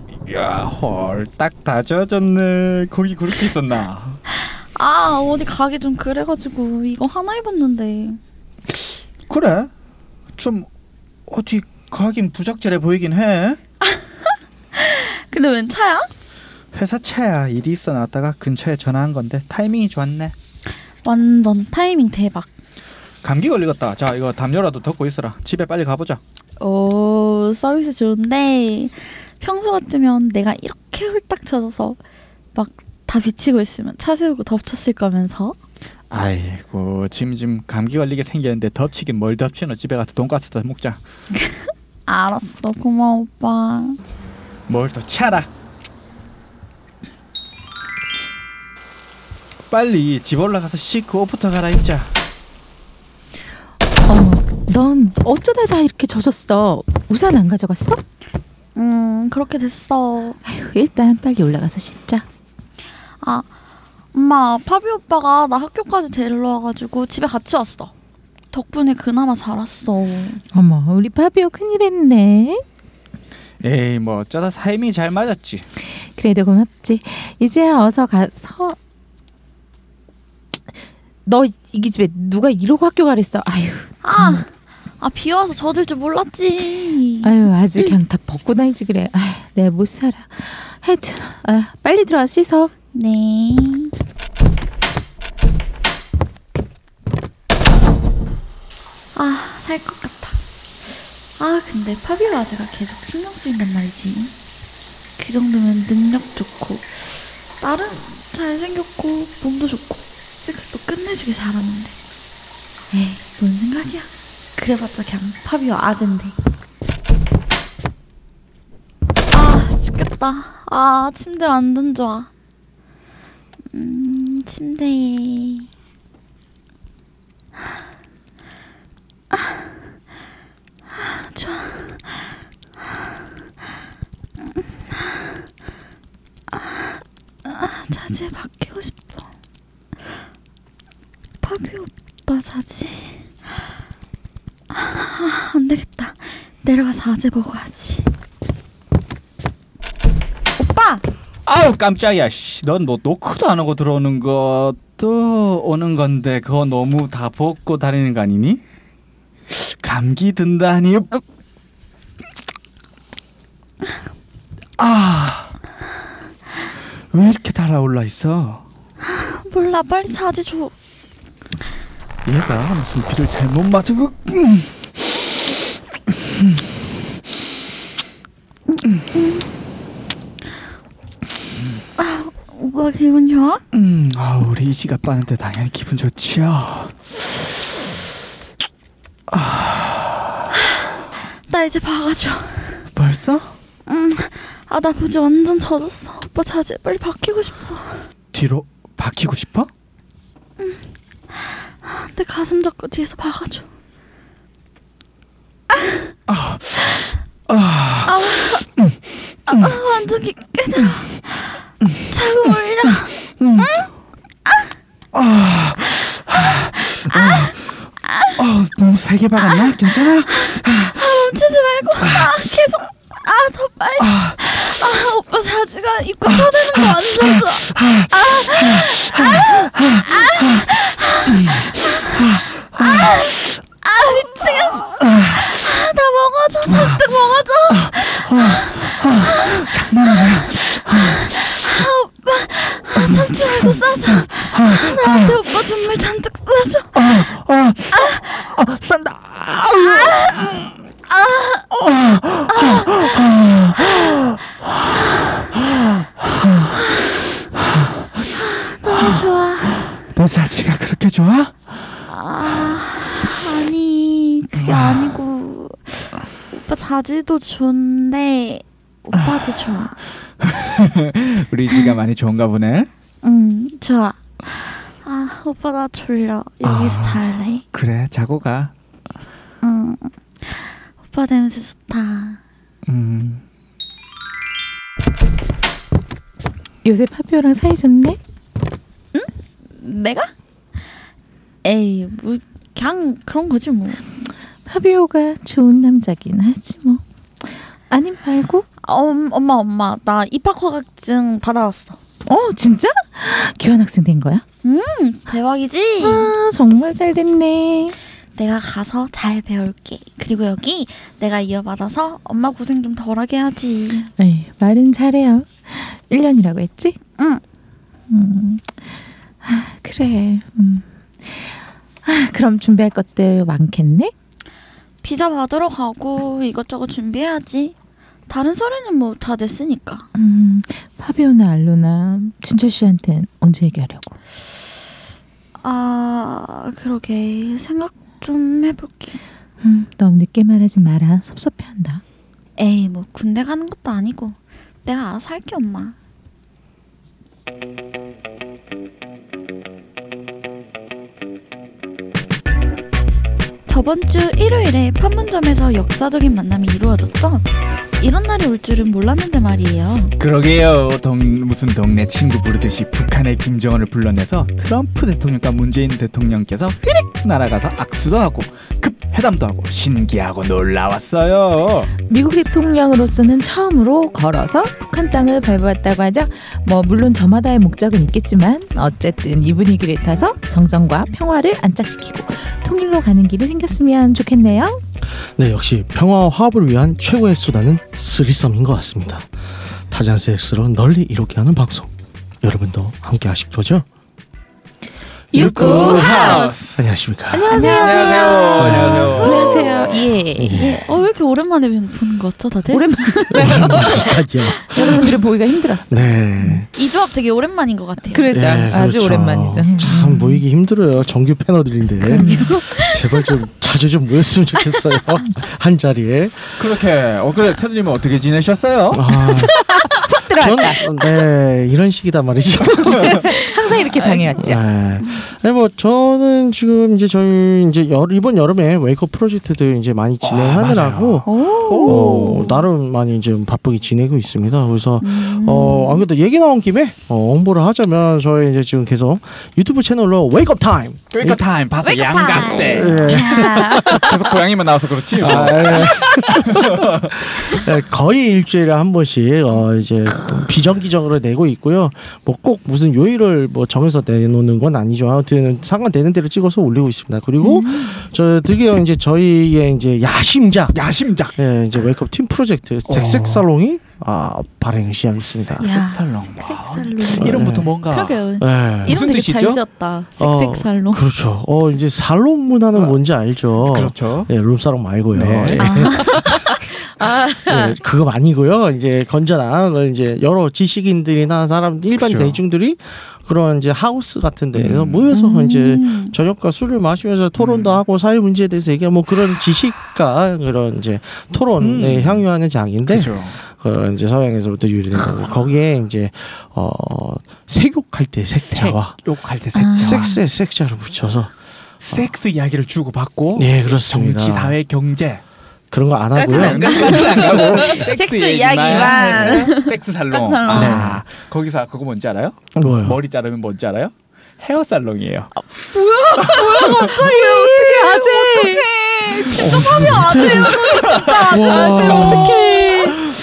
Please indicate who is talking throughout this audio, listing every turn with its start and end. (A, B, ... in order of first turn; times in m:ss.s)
0:00.2-0:04.2 A
0:04.4-0:08.2 B
0:09.3-0:09.7 A
0:10.4-0:10.7 A
0:11.3-0:13.6 A
0:13.8-0:16.1 B
0:16.7-0:20.4 A
0:21.0-0:22.5 B
0:23.2-0:26.2 A
0:26.6-0:32.0 B
0:32.6-0:35.6 B
0:36.1-0:41.0 A
0:41.4-0:44.0 B
0:44.7-0:45.5 A
0:49.7-0:52.1 A
0:54.1-0:58.0 C
0:58.8-1:00.4 B
1:00.4-1:02.2 C
1:04.1-1:07.9 B
1:08.5-1:10.4 B
1:10.5-1:12.6 C
1:13.6-1:15.6 A
1:16.0-1:18.8 C
1:21.3-1:24.4 C
1:24.0-1:24.5 B
1:25.0-1:27.4 B
1:27.2-1:32.7 C
1:32.9-1:33.9 B
1:39.2-1:40.4 B
1:41.4-1:44.3 B
1:45.2-1:52.0 B
1:52.9-1:56.4 B
1:59.3-2:02.3 B
2:03.7-2:05.7 B
2:09.3-2:09.6 B
2:10.9-2:12.2 B
2:14.5-2:15.0 B
2:16.5-2:19.2 B
2:21.4-2:23.2 B
2:24.7-2:28.1 B
2:30.6-2:31.0 B
2:31.5-2:38.6 A
2:39.5-2:41.1 A
2:44.8-2:45.5 A
2:47.1-2:48.6 A
2:49.0-2:50.7 B
2:52.2-2:54.8 A
2:59.1-2:59.5 B
3:01.6-3:01.8 A
3:02.0-3:03.6 B
3:03.7-3:07.1 A
3:09.3-3:10.4 A
3:11.5-3:12.8 B
3:13.0-3:13.5 A
3:13.9-3:18.0 B
3:18.3-3:19.7 A
3:20.6-3:23.7 B
3:25.8-3:26.0 B
3:26.3-3:29.0 A
3:28.1-3:28.6 B
3:29.5-3:33.9 B
3:29.5-3:29.8 A
3:31.8-3:33.9 A
3:35.1-3:37.6 A
3:36.4-3:38.4 B
3:38.4-3:41.0 A
3:39.4-4:07.2 B
3:42.0-3:42.4 A
3:44.0-3:44.3 A
3:46.3-3:50.7 A
3:51.3-3:53.5 A
3:54.4-3:55.5 A
3:56.7-3:57.0 A
3:57.7-4:01.4 A
4:03.0-4:05.6 A
4:07.0-4:10.8 A
4:07.9-4:08.4 B
4:09.9-4:10.6 B
4:11.1-4:11.7 B
4:11.7-4:17.0 A
4:12.5-4:13.3 B
4:17.5-4:21.8 A
4:18.3-4:19.9 B
4:22.1-4:30.0 B
4:24.6-4:25.2 A
4:29.2-4:29.4 A
4:30.4-4:32.9 A
4:33.2-4:37.6 B
4:36.6-4:38.7 A
4:39.6-4:42.4 B
4:42.9-4:43.4 A
4:46.8-4:48.2 C
4:49.1-4:50.3 B
4:51.6-4:54.3 B
4:54.7-4:57.0 C
4:57.9-4:58.7 C
4:58.8-5:02.0 B
5:02.3-5:04.4 C
5:04.6-5:06.3 B
5:06.0-5:08.0 C
5:08.4-5:14.1 B
5:14.2-5:17.0 C
5:18.1-5:18.9 C
5:19.4-5:24.1 C
5:25.0-5:27.8 B
5:28.3-5:30.1 B
5:30.2-5:34.2 C
5:35.6-5:39.2 B
5:39.6-5:42.0 C
5:42.6-5:46.0 B
5:53.7-5:57.5 B
5:58.0-6:00.2 B
6:00.2-6:11.9 A
6:12.1-6:24.8 C
6:25.4-6:29.3 D
6:29.9-6:31.9 D
6:32.4-6:33.9 D
6:35.3-6:36.5 C
6:35.3-6:36.6 B
6:35.3-6:36.8 A
6:35.4-6:37.6 D
6:37.3-6:38.5 C
6:37.5-6:39.7 B
6:37.6-6:40.1 A
6:38.6-6:39.3 D
6:39.2-6:40.6 C
6:40.4-6:40.9 D
6:40.5-6:44.2 B
6:42.7-6:44.1 C
6:43.3-6:45.2 D
6:44.7-6:46.6 C
6:44.7-6:45.1 B
6:45.9-6:46.7 D
6:46.7-6:48.3 B
6:48.1-6:50.4 C
6:48.3-6:56.6 D
6:52.1-6:52.6 C
6:52.1-6:53.3 B
6:56.6-6:59.0 A
6:58.9-6:59.6 D
6:59.2-7:00.8 C
7:00.3-7:03.4 D
7:02.9-7:04.6 C
7:04.0-7:04.4 B
7:04.4-7:11.3 D
7:10.2-7:12.4 A
7:11.3-7:12.7 B
7:11.8-7:21.4 D
7:15.0-7:16.1 B
7:21.1-7:27.3 A
7:21.8-7:24.4 B
7:22.6-7:24.1 D
7:25.1-7:40.8 D
7:37.4-7:38.0 B
7:40.7-7:41.4 A
7:41.4-7:45.7 D
7:42.9-7:43.5 A
7:45.6-7:48.2 A
7:45.6-7:51.0 B
7:47.1-7:47.7 D
7:48.4-7:49.0 D
7:48.8-7:49.6 A
7:50.2-7:56.5 D
7:53.6-7:54.3 A
7:55.1-7:55.9 A
7:55.6-7:56.4 B
7:56.0-7:57.8 C
7:57.4-8:19.0 D
8:02.0-8:02.4 A
8:04.5-8:05.1 A
8:05.1-8:06.2 B
8:07.4-8:07.8 A
8:11.6-8:12.2 A
8:12.9-8:13.4 A
8:18.3-8:20.2 A
8:19.6-8:20.2 B
8:19.8-8:21.3 D
8:21.8-8:25.2 A
8:23.4-8:24.6 D
8:25.7-8:27.8 D
8:26.2-8:30.9 B
8:26.3-8:35.3 A
8:26.8-8:27.8 C
8:28.7-8:29.5 C
8:30.5-8:31.0 D
8:32.5-8:33.0 D
8:35.7-8:43.0 B
8:36.2-8:39.4 C
8:36.2-8:37.0 A
8:39.3-8:42.4 D
8:40.4-8:42.3 A
8:42.3-8:43.0 C